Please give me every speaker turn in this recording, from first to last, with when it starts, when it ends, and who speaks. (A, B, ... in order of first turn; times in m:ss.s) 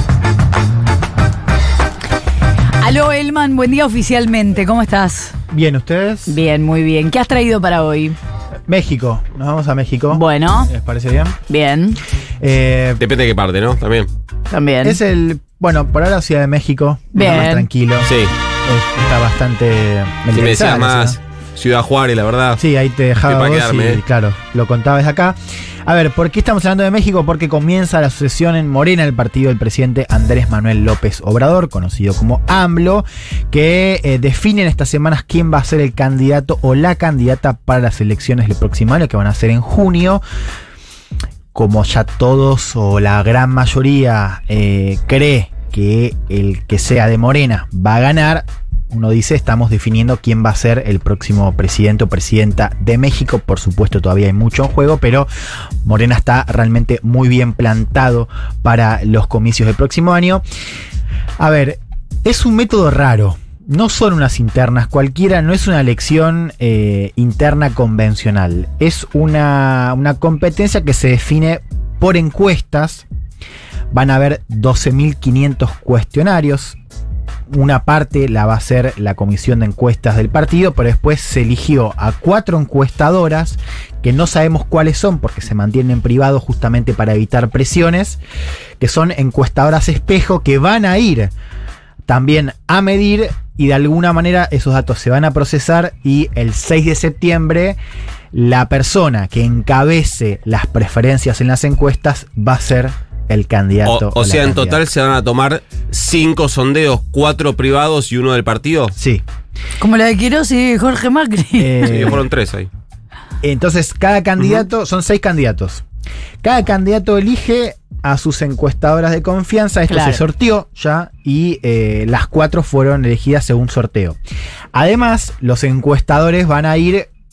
0:02.8-0:05.3 A
0:05.5-0:06.4 B
0:06.3-0:08.2 A
0:08.7-0:11.4 B
0:10.1-0:10.7 A
0:11.5-0:12.0 A
0:12.4-0:13.0 B
0:13.0-0:14.1 C
0:14.5-0:15.0 A
0:14.8-0:18.1 B
0:17.1-0:17.7 A
0:18.0-0:18.3 C
0:18.6-0:21.2 B
0:20.3-0:22.6 C
0:22.6-0:40.2 B
0:23.2-0:24.0 C
0:41.5-0:55.3 B
0:55.8-1:00.4 B
1:01.4-1:13.1 B
1:13.9-1:16.8 B
1:17.5-1:28.2 B
1:28.8-1:31.3 B
1:32.1-1:37.8 B
1:38.3-1:44.8 B
1:43.8-1:49.0 C
1:49.0-1:49.2 B
1:49.8-1:52.1 A
1:51.6-1:52.3 B
1:51.9-1:52.7 C
1:53.4-1:55.8 B
1:54.4-1:54.7 C
1:56.4-2:04.2 B
1:59.9-2:00.2 A
2:04.7-2:07.1 B